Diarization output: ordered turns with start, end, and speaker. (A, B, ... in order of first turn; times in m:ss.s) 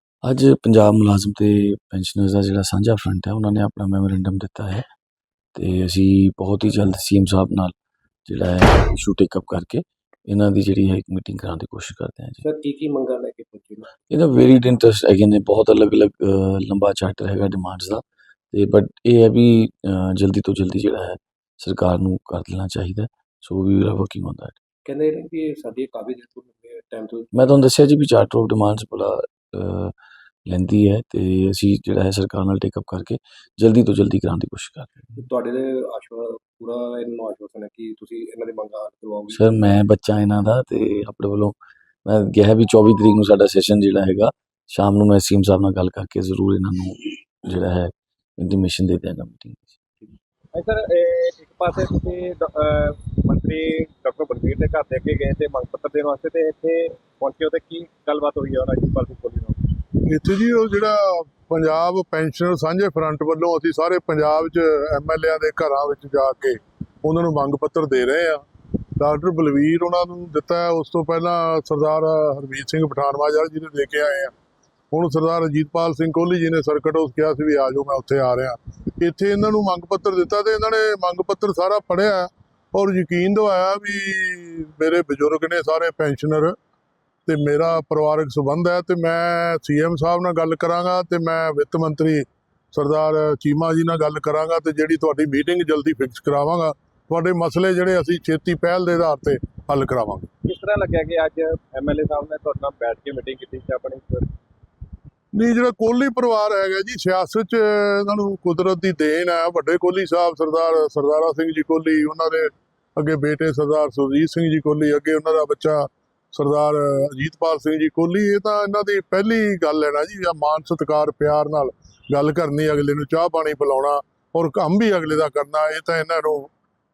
0:00.2-0:04.8 A
0:05.5-0:07.7 A
0:08.3-0:12.4 A
0:12.4-0:14.0 B
0:14.1-0:24.5 A
0:24.8-0:27.3 B
0:27.3-0:29.9 A
0:30.5-0:35.2 A
0:35.2-0:39.5 B
0:39.3-0:49.8 A
0:50.5-0:59.7 C
1:00.0-1:08.4 D
1:09.0-1:14.3 D
1:14.9-1:26.6 D
1:27.2-1:40.3 D
1:40.4-1:44.3 C
1:45.3-2:06.5 D